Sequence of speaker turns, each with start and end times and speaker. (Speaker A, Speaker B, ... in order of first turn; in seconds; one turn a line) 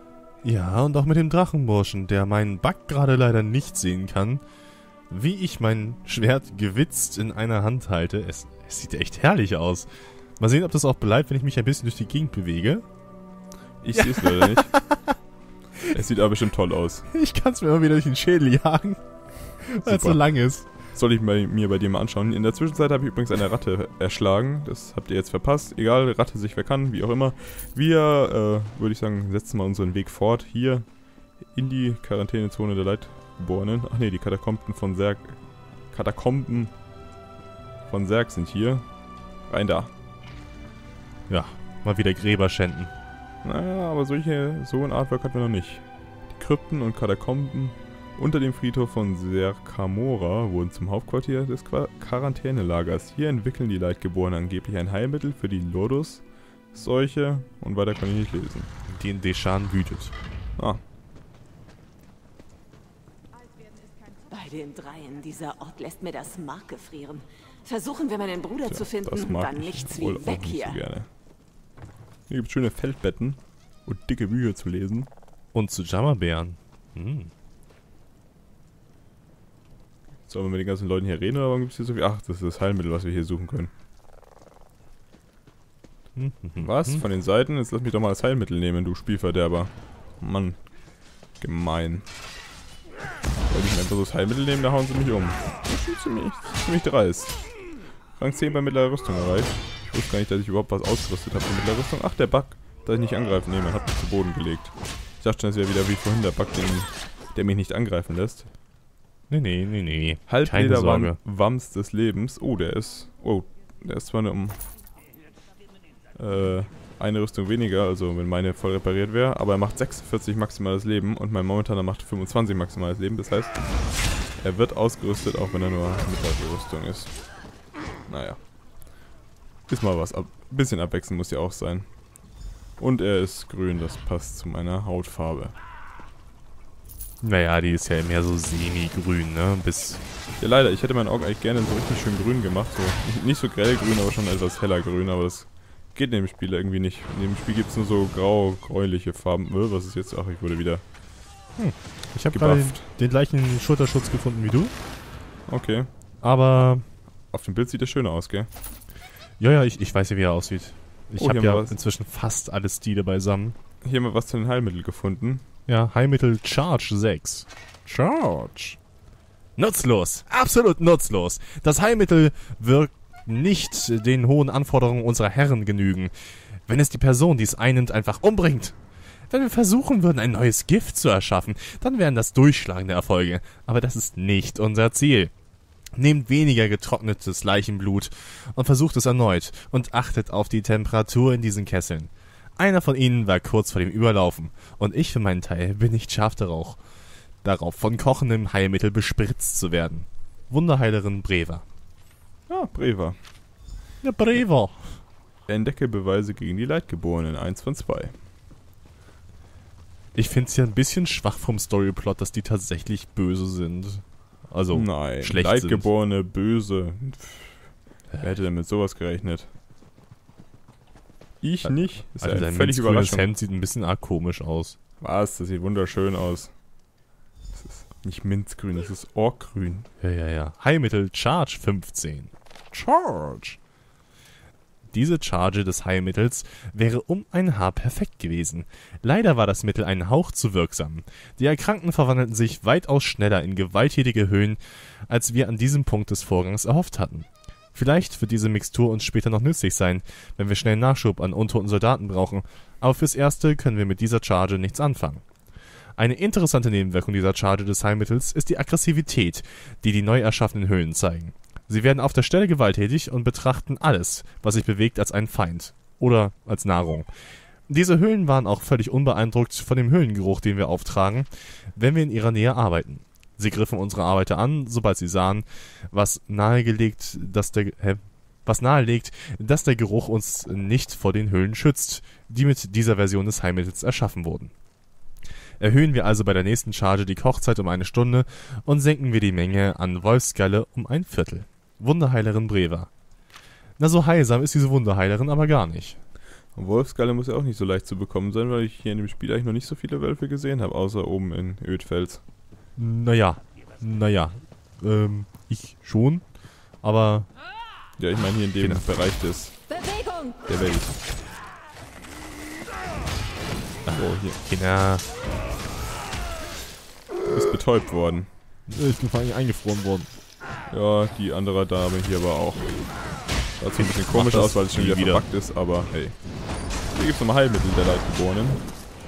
Speaker A: 0.4-4.4
Speaker A: 5.1-12.8
Speaker B: 13.8-14.7
Speaker A: 13.9-15.1
Speaker B: 15.9-17.1
Speaker A: 17.1-19.0
Speaker A: 19.6-20.7
Speaker B: 19.8-20.2
Speaker B: 20.9-30.9
Speaker B: 31.5-35.4
Speaker B: 35.9-36.7
Speaker B: 37.9-38.9
Speaker B: 39.5-39.9
Speaker A: 41.3-42.9
Speaker B: 43.4-58.7
Speaker A: 58.9-60.1
Speaker C: 64.3-70.8
Speaker B: 68.7-71.1
Speaker B: 72.3-75.1
Speaker A: 75.5-77.3
Speaker B: 80.3-83.7
Speaker A: 86.2-87.0
Speaker B: 86.6-90.6
Speaker B: 91.4-92.1
Speaker B: 93.5-97.4
Speaker B: 98.2-108.5
Speaker A: 109.3-111.2
Speaker B: 110.3-114.6
Speaker B: 116.2-123.6
Speaker B: 124.4-127.2
Speaker B: 128.1-128.4
Speaker B: 129.7-131.9
Speaker B: 132.8-135.6
Speaker A: 137.2-140.0
Speaker B: 140.4-150.8
Speaker A: 151.6-154.7
Speaker B: 152.3-152.8
Speaker B: 155.5-155.9
Speaker A: 156.2-156.8
Speaker B: 157.3-158.5
Speaker A: 159.4-163.6
Speaker B: 161.2-161.8
Speaker B: 163.8-165.5
Speaker A: 165.7-168.8
Speaker A: 169.6-178.8
Speaker A: 179.3-185.3
Speaker A: 185.9-196.8
Speaker A: 197.4-201.6
Speaker B: 202.5-203.2
Speaker A: 204.0-205.0
Speaker B: 205.5-208.2
Speaker A: 210.2-215.9
Speaker B: 214.7-219.5
Speaker B: 221.4-223.3
Speaker A: 222.2-224.8
Speaker B: 225.0-226.5
Speaker B: 227.5-229.9
Speaker A: 230.0-233.6
Speaker A: 234.9-255.2
Speaker A: 256.0-267.1
Speaker A: 267.7-284.5
Speaker A: 285.6-292.9
Speaker A: 293.8-296.0
Speaker B: 296.6-302.2
Speaker A: 302.8-306.2
Speaker A: 306.8-307.3
Speaker B: 308.0-309.6
Speaker A: 308.6-308.9
Speaker C: 309.7-310.2
Speaker B: 310.5-311.0
Speaker A: 313.9-315.0
Speaker B: 313.9-314.4
Speaker B: 317.2-318.3
Speaker A: 318.7-320.1
Speaker B: 320.7-322.9
Speaker B: 323.6-328.7
Speaker A: 323.8-325.3